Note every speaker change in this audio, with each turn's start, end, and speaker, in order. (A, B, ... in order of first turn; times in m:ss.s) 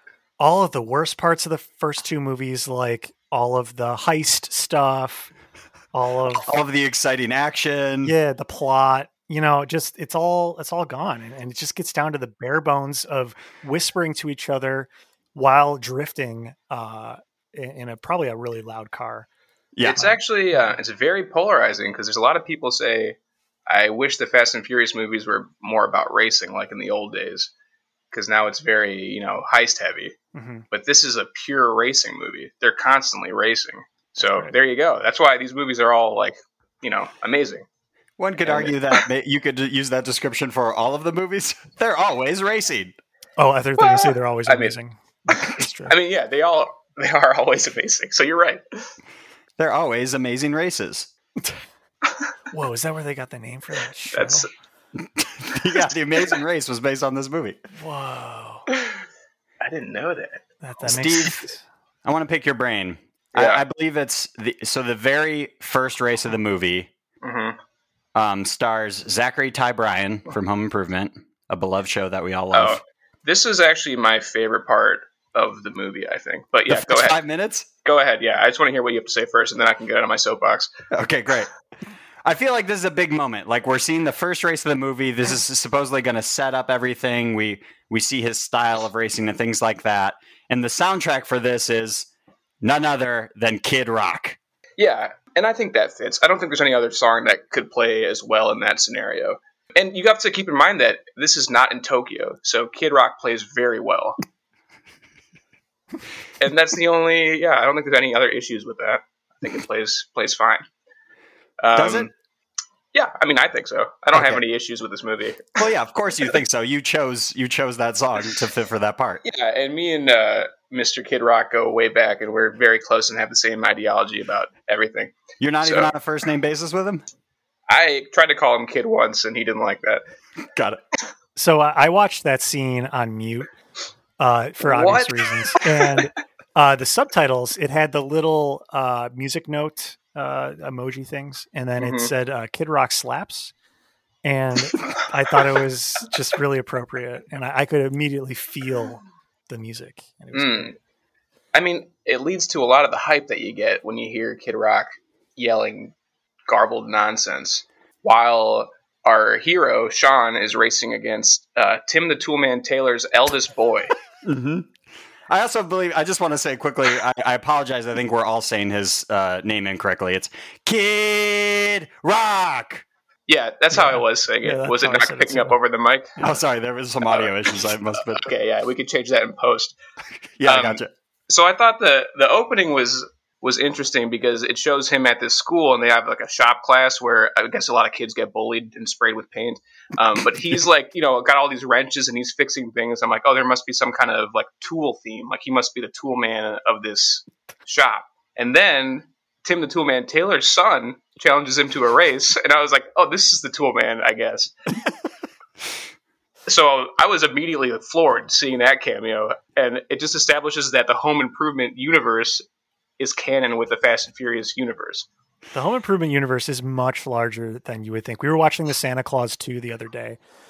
0:00.4-0:05.3 A
0:05.9-0:06.5 A
0:06.3-0:08.1 B
0:08.0-0:19.3 A
0:19.7-0:20.1 B
0:19.8-0:20.7 A
0:19.9-0:23.2 C
0:23.7-0:27.5 C
0:28.1-0:30.2 C
0:30.3-0:30.6 A
0:30.7-0:37.6 C
0:34.2-0:34.5 A
0:38.2-0:43.0 B
0:38.4-0:39.0 C
0:43.4-0:45.9 A
0:43.8-0:44.7 C
0:45.8-0:48.8 C
0:49.6-0:51.1 B
0:52.5-0:54.5 A
0:54.1-0:54.5 C
0:55.0-0:57.6 B
0:57.7-0:58.6 A
0:59.6-1:00.4 C
1:00.6-1:01.6 A
1:00.8-1:01.4 B
1:02.0-1:06.9 B
1:03.3-1:03.6 C
1:07.2-1:07.6 C
1:08.1-1:12.8 B
1:12.5-1:17.2 C
1:16.7-1:17.7 B
1:17.8-1:20.7 C
1:20.9-1:21.5 B
1:22.2-1:32.1 B
1:32.6-1:34.4 B
1:34.8-1:44.2 C
1:46.4-1:50.6 C
1:51.6-1:52.1 C
1:51.7-1:52.1 B
1:52.9-1:55.6 C
1:54.1-1:54.4 B
1:55.6-1:59.2 B
1:59.2-2:05.9 C
2:05.4-2:07.0 B
2:07.7-2:10.0 C
2:10.5-2:10.8 B
2:11.4-2:13.5 A
2:14.2-2:23.5 A
2:14.6-2:16.0 C
2:21.8-2:22.1 C
2:24.2-2:30.7 A
2:30.3-2:30.7 C
2:31.5-2:35.9 C
2:36.5-2:43.9 C
2:44.2-2:44.7 B
2:45.3-2:52.8 B
2:53.3-2:56.2 C
2:53.7-2:55.6 A
2:56.2-2:58.3 B
2:57.0-2:57.3 C
2:58.1-2:59.8 C
3:00.4-3:00.9 B
3:00.4-3:24.5 C
3:26.5-3:32.4 C
3:33.0-3:35.0 C
3:35.5-3:40.2 A